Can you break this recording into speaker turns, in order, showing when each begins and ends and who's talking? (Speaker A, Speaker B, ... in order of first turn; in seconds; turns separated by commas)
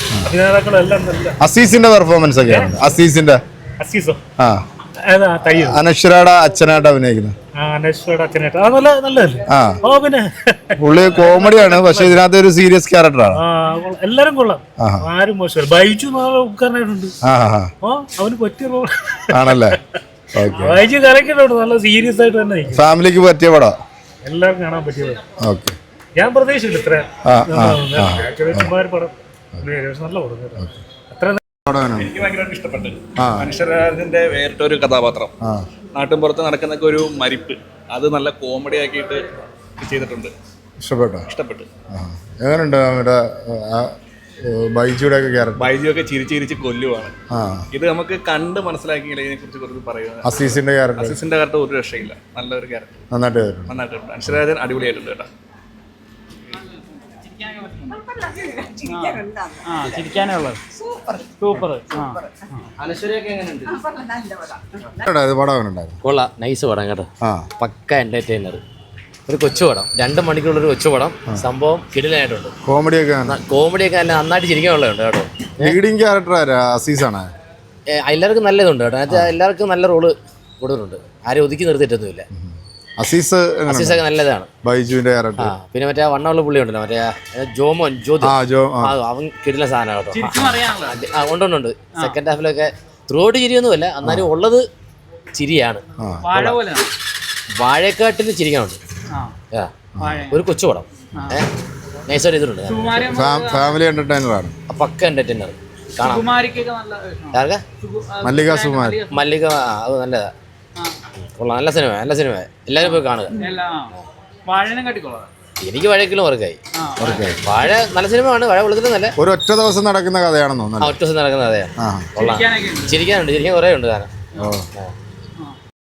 Speaker A: 0.2-1.4, Speaker B: 1.4-3.4, Speaker A: 2.4-2.9, Speaker A: 3.8-4.2, Speaker B: 4.4-4.6, Speaker A: 5.0-5.8, Speaker B: 5.5-7.3, Speaker A: 7.5-12.2, Speaker B: 9.5-9.8, Speaker B: 10.8-13.4, Speaker A: 13.3-17.1, Speaker B: 14.8-15.0, Speaker B: 17.2-17.7, Speaker A: 17.8-19.8, Speaker B: 19.3-19.8, Speaker B: 20.3-20.8, Speaker A: 20.5-22.8, Speaker B: 22.7-23.7, Speaker A: 24.2-25.2, Speaker B: 25.4-25.8, Speaker A: 26.2-31.4, Speaker B: 27.2-28.7, Speaker B: 31.6-32.1, Speaker C: 31.9-35.3, Speaker B: 33.2-33.5, Speaker B: 35.4-35.6, Speaker C: 35.9-39.2, Speaker C: 39.8-40.3, Speaker B: 40.8-41.3, Speaker C: 41.3-41.7, Speaker B: 41.9-43.9, Speaker B: 44.4-45.7, Speaker C: 45.6-47.1, Speaker B: 47.3-47.7, Speaker C: 47.7-53.0, Speaker B: 50.2-51.2, Speaker B: 53.1-53.7, Speaker C: 53.7-55.3, Speaker D: 56.6-58.0, Speaker D: 58.8-60.6, Speaker D: 61.2-62.7, Speaker B: 65.0-66.0, Speaker E: 66.0-68.6, Speaker E: 69.2-72.5, Speaker B: 72.6-73.4, Speaker E: 73.2-75.8, Speaker B: 75.6-77.3, Speaker E: 77.9-82.2, Speaker B: 79.1-79.3, Speaker B: 82.3-84.0, Speaker E: 83.7-84.5, Speaker B: 84.6-85.5, Speaker E: 85.4-94.6, Speaker B: 88.2-89.0, Speaker D: 90.1-91.0, Speaker B: 90.4-90.6, Speaker B: 94.0-94.3, Speaker E: 95.3-95.8, Speaker B: 96.0-96.3, Speaker D: 96.2-96.9, Speaker E: 97.6-98.8, Speaker E: 99.5-101.5, Speaker B: 100.0-100.2, Speaker D: 100.0-100.4, Speaker E: 102.1-103.0, Speaker D: 102.7-103.8, Speaker B: 103.1-104.5, Speaker E: 104.7-106.4, Speaker D: 106.0-109.2, Speaker E: 107.3-107.6, Speaker B: 108.2-109.1, Speaker E: 109.1-110.3, Speaker E: 111.3-114.0, Speaker D: 112.8-113.9, Speaker D: 114.5-115.3, Speaker E: 115.6-119.2, Speaker D: 116.7-117.2, Speaker B: 117.0-117.4, Speaker B: 119.2-121.0, Speaker E: 120.8-124.1, Speaker B: 121.8-122.1, Speaker D: 122.2-123.0, Speaker B: 124.4-124.7